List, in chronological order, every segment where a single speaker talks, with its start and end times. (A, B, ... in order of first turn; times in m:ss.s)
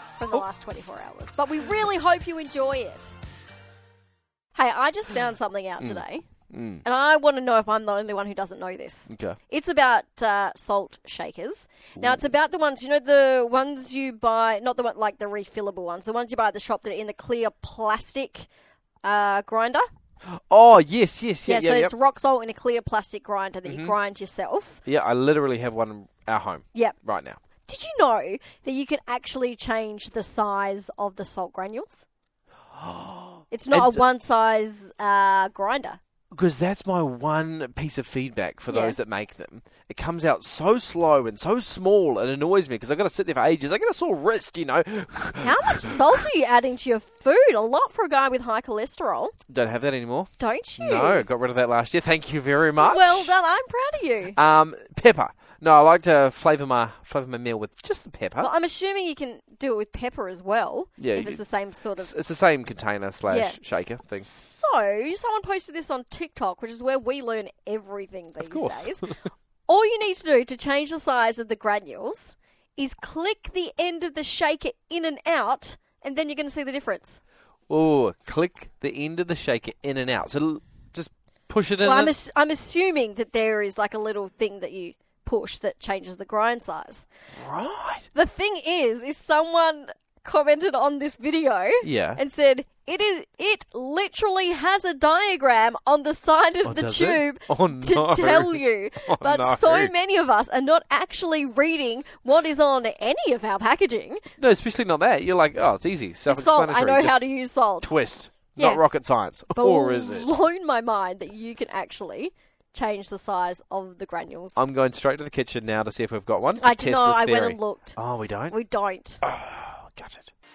0:00.2-0:03.1 A
0:04.5-0:06.3 A
0:05.8-0:06.8 B
0:06.8-0:18.5 A
0:09.1-0:09.4 B
0:12.0-0:12.3 B
0:19.0-0:19.9 A
0:20.2-0:21.9 B
0:21.4-0:24.8 A
0:23.6-0:23.9 B
0:24.8-0:27.4 B
0:27.6-0:32.0 A
0:32.8-0:34.0 B
0:33.5-0:36.0 A
0:36.3-0:46.2 B
0:38.7-0:39.0 A
0:45.4-0:49.3 A
0:49.5-0:53.3 B
0:50.4-0:51.2 A
0:52.8-0:54.4 A
0:54.4-0:58.5 B
0:58.4-1:02.1 A
1:01.0-1:01.4 B
1:02.0-1:04.3 B
1:03.3-1:03.6 A
1:04.1-1:09.0 A
1:08.4-1:09.2 B
1:09.7-1:17.2 A
1:17.7-1:22.1 B
1:21.8-1:27.0 A
1:27.4-1:28.1 B
1:28.1-1:44.2 A
1:31.8-1:32.2 B
1:36.6-1:39.9 B
1:44.4-1:47.2 B
1:46.3-1:47.9 A
1:47.8-1:50.3 B
1:48.6-1:48.8 A
1:49.5-1:54.6 A
1:54.6-1:58.5 B
1:56.6-1:58.0 A
1:58.5-1:59.2 A
1:59.2-2:00.3 B